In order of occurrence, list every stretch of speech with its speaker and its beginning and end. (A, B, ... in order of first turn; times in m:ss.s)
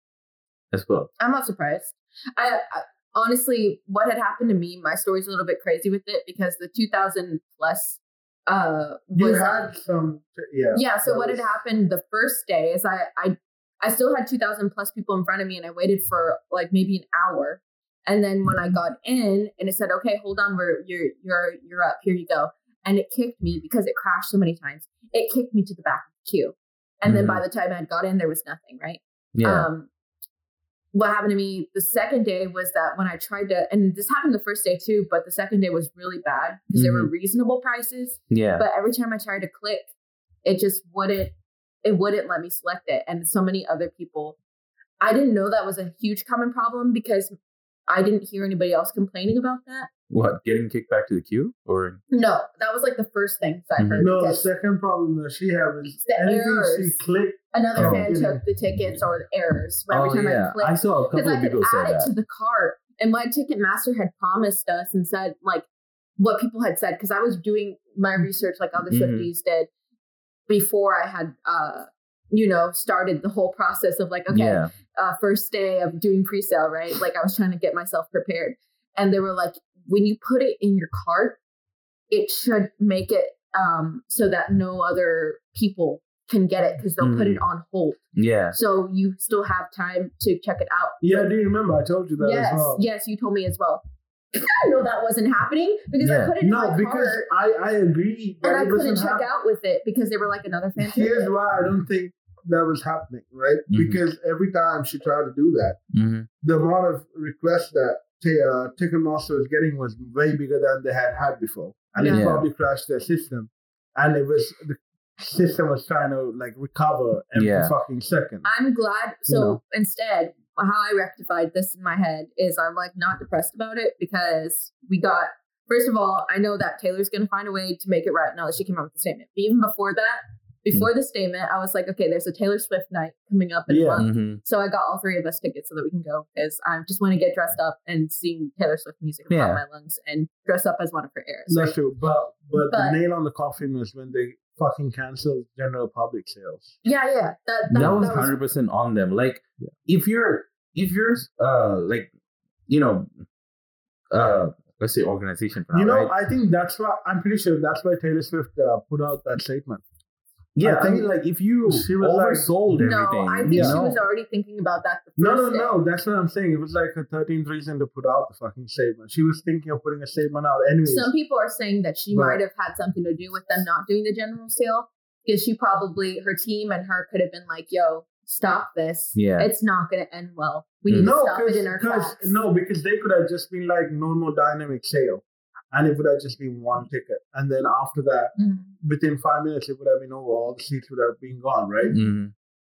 0:00.7-0:01.1 A
0:01.2-0:09.7 B
0:09.1-0:11.4 C
0:10.7-0:29.9 B
0:27.0-0:27.4 A
0:29.4-0:29.7 A
0:30.9-0:39.9 B
0:36.7-0:37.1 A
0:38.3-0:38.6 A
0:40.4-0:44.4 B
0:45.0-0:47.3 B
0:47.9-0:49.9 B
0:50.1-0:52.0 A
0:52.1-0:54.5 B
0:53.8-0:54.1 A
0:54.0-0:58.4 C
0:56.0-0:57.0 B
0:57.5-1:05.7 B
0:57.8-0:58.1 A
0:59.9-1:02.1 A
1:06.2-1:09.7 B
1:08.9-1:09.3 A
1:10.5-1:21.4 B
1:14.3-1:14.7 A
1:22.1-1:28.0 B
1:27.0-1:27.4 A
1:28.2-1:28.6 A
1:28.5-1:31.3 B
1:31.0-1:32.8 C
1:32.2-1:33.8 B
1:34.3-1:37.3 B
1:36.0-1:36.3 A
1:36.4-1:39.2 C
1:38.4-1:41.3 B
1:40.8-1:45.8 C
1:43.7-1:44.0 A
1:45.9-1:46.3 A
1:46.4-1:58.5 C
1:52.0-1:52.3 B
1:52.0-1:52.5 A
1:57.4-1:57.7 A
1:58.4-2:21.8 B
1:59.3-1:59.6 C
2:13.7-2:14.0 C
2:14.0-2:14.4 A
2:19.3-2:19.6 A
2:21.5-2:26.8 C
2:22.6-2:23.0 B
2:26.8-2:28.3 B
2:27.7-2:28.2 C
2:27.7-2:32.1 A
2:32.7-2:33.1 A
2:34.1-2:36.1 A
2:35.7-2:39.8 C
2:40.6-2:44.0 A
2:40.6-2:41.1 C
2:41.7-2:42.6 C
2:42.8-2:45.8 B
2:43.5-2:43.8 C
2:45.2-2:51.1 C
2:50.9-3:02.4 B
2:52.1-2:52.4 C
2:59.2-2:59.5 A
3:00.9-3:01.1 A
3:00.9-3:12.0 C
3:08.4-3:08.7 B
3:11.9-3:12.3 A